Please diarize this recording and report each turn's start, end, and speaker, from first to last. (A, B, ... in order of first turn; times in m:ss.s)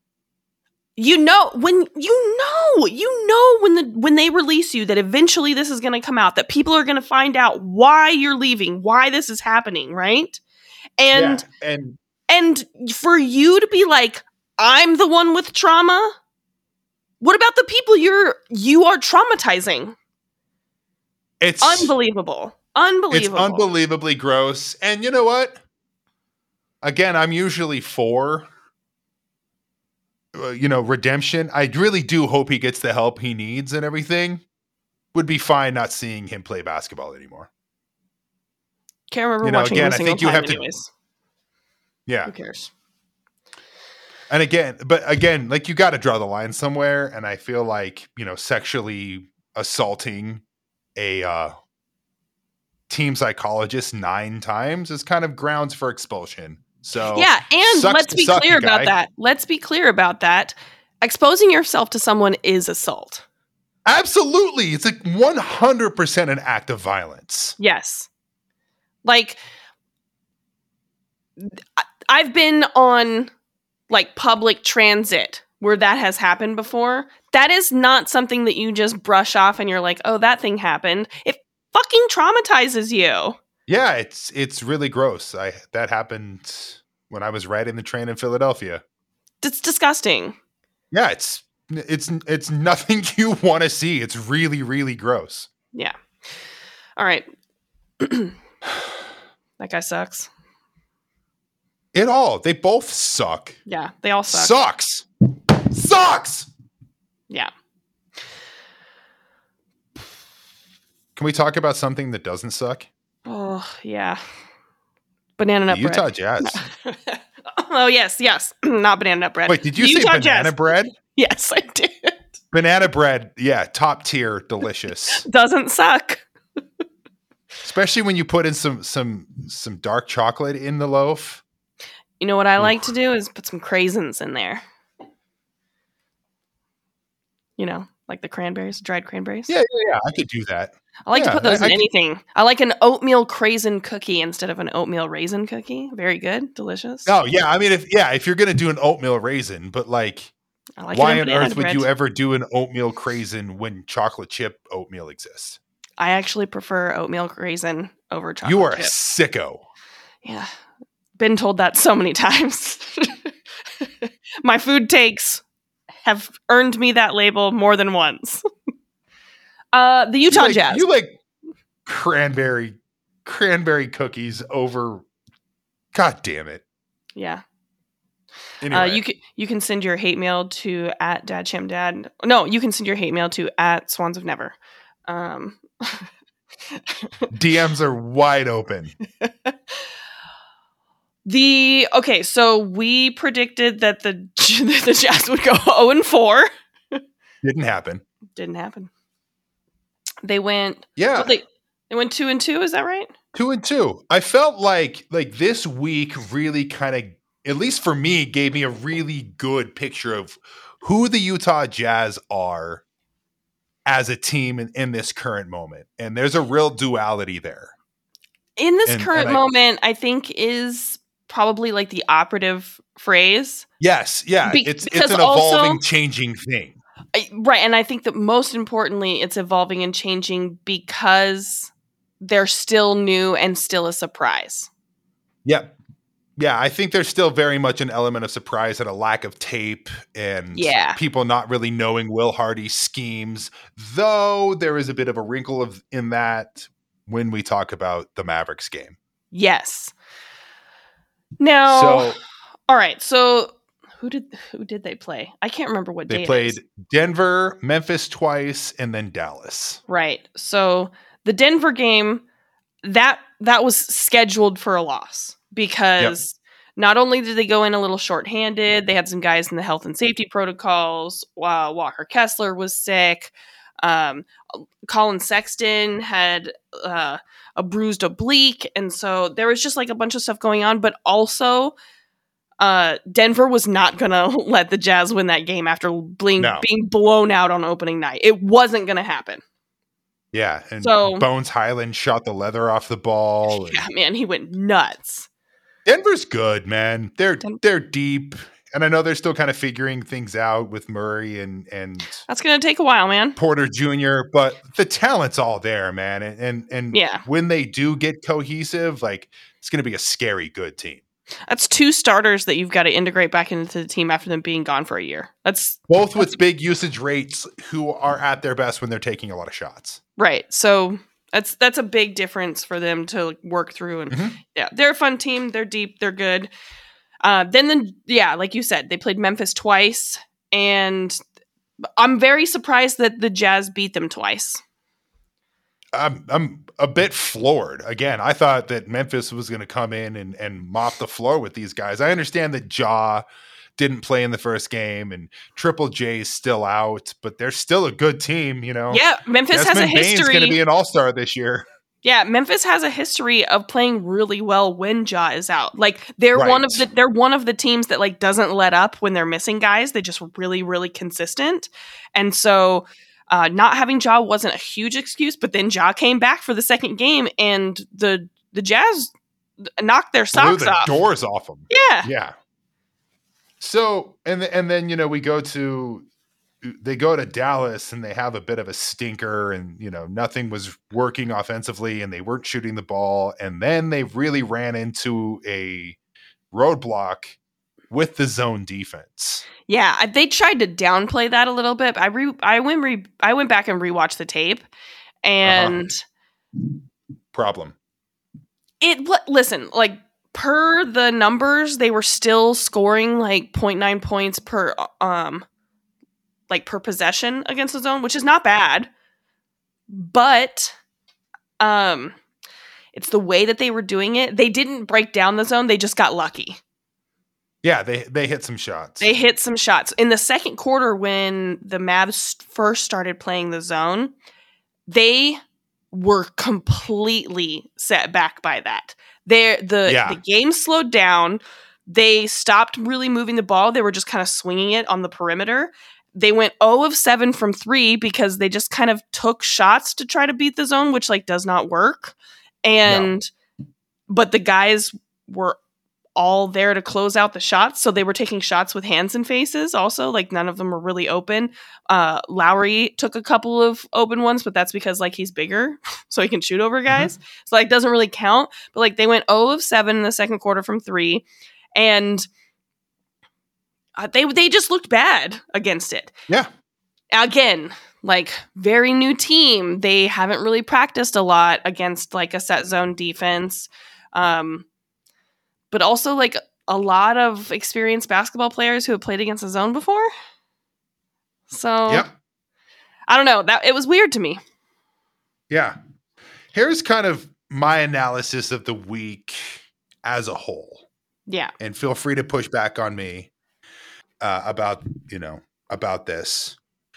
0:01.0-0:10.4 A
0:11.0-0:11.4 A
0:11.1-0:12.0 B
0:12.3-0:16.1 A
0:17.2-0:19.9 A
0:21.4-0:21.9 B
0:21.6-0:23.7 A
0:23.1-0:25.6 B
0:26.8-0:28.5 B
0:30.3-0:34.4 B
0:35.1-0:37.5 B
0:39.1-0:40.9 A
0:39.4-0:40.6 B
0:42.1-0:42.3 B
0:42.3-0:42.7 A
0:44.3-0:50.4 B
0:51.0-0:51.5 B
0:52.9-0:58.9 B
0:57.1-1:03.2 A
1:03.8-1:07.6 B
1:07.6-1:08.1 A
1:09.0-1:09.4 A
1:11.4-1:13.3 A
1:13.9-1:23.4 A
1:23.7-1:28.8 B
1:29.4-1:30.4 A
1:30.9-1:35.5 B
1:37.0-1:37.3 A
1:38.0-1:38.3 A
1:39.6-1:40.3 A
1:41.9-1:43.6 B
1:43.7-1:44.5 A
1:44.3-1:45.0 B
1:45.7-1:46.5 B
1:51.2-1:52.9 B
1:53.2-1:54.2 A
1:55.4-2:02.2 A
1:55.7-1:56.6 B
1:59.5-2:00.9 B
2:02.5-2:05.2 B
2:05.1-2:06.2 A
2:07.6-2:11.4 B
2:12.2-2:14.6 A
2:12.6-2:12.8 B
2:17.6-2:19.5 A
2:19.5-2:21.8 B
2:21.1-2:27.1 A
2:27.0-2:30.3 B
2:30.8-2:31.8 A
2:30.9-2:35.6 B
2:36.0-2:38.9 A
2:38.4-2:39.6 B
2:40.2-2:40.5 A
2:41.2-2:45.4 A
2:46.0-2:48.4 A
2:49.7-2:50.8 A
2:50.3-2:51.2 B
2:51.8-2:55.0 B
2:55.9-2:56.6 B
2:57.2-2:57.4 A
2:58.6-2:59.0 B
2:58.7-3:04.6 A
3:05.1-3:06.1 A
3:07.3-3:09.0 B
3:09.2-3:09.5 A
3:11.2-3:17.0 A
3:17.4-3:18.0 B
3:18.4-3:18.9 A
3:20.2-3:23.1 A
3:21.0-3:21.3 B
3:23.3-3:32.8 B
3:33.8-3:37.7 B
3:38.6-3:43.6 A
3:38.8-3:39.4 B
3:43.8-3:46.8 B
3:44.4-3:45.8 A
3:47.1-3:54.7 A
3:55.4-3:55.7 B
3:56.4-4:09.0 B
4:00.5-4:01.0 A
4:09.3-4:09.9 A
4:11.4-4:16.6 A
4:11.6-4:12.2 B
4:16.1-4:19.8 B
4:19.9-4:22.2 A
4:22.8-4:41.8 A
4:42.6-4:49.4 A
4:46.4-4:46.6 B
4:50.3-4:53.8 B
4:50.8-4:51.2 A
4:53.5-4:55.3 A
4:55.8-5:02.2 B
5:02.2-5:03.4 A
5:03.4-5:11.0 B
5:06.9-5:07.2 A
5:11.5-5:16.3 A
5:15.9-5:20.0 B
5:20.2-5:26.5 A
5:24.1-5:24.4 B
5:27.2-5:31.2 A
5:32.0-5:34.6 A
5:35.9-5:43.2 B
5:43.8-5:51.6 B
5:48.9-5:50.6 A
5:52.0-6:09.1 A
5:56.3-5:56.9 B
6:09.8-6:10.9 A
6:10.3-6:12.3 B
6:11.7-6:12.1 A
6:13.6-6:16.0 B
6:16.6-6:26.0 B
6:26.5-6:27.4 B
6:27.9-6:29.4 B
6:29.7-6:34.6 A
6:35.2-6:36.0 A
6:35.4-6:35.8 B
6:37.3-6:37.7 B
6:38.8-6:45.4 A
6:46.5-6:48.9 A
6:49.9-6:50.7 A
6:51.6-6:52.2 A
6:52.9-6:56.6 A
6:57.6-6:59.1 B
6:59.0-7:04.1 A
7:04.9-7:05.4 A
7:05.9-7:23.3 A
7:09.8-7:10.2 B
7:24.1-7:25.6 A
7:26.2-7:42.3 A
7:44.0-7:46.1 A
7:47.1-7:54.6 A
7:55.7-8:00.1 A
8:01.5-8:02.1 A
8:03.1-8:04.4 A
8:05.5-8:05.8 B
8:06.5-8:10.8 B
8:11.3-8:11.5 A
8:11.6-8:13.3 B
8:14.2-8:16.6 B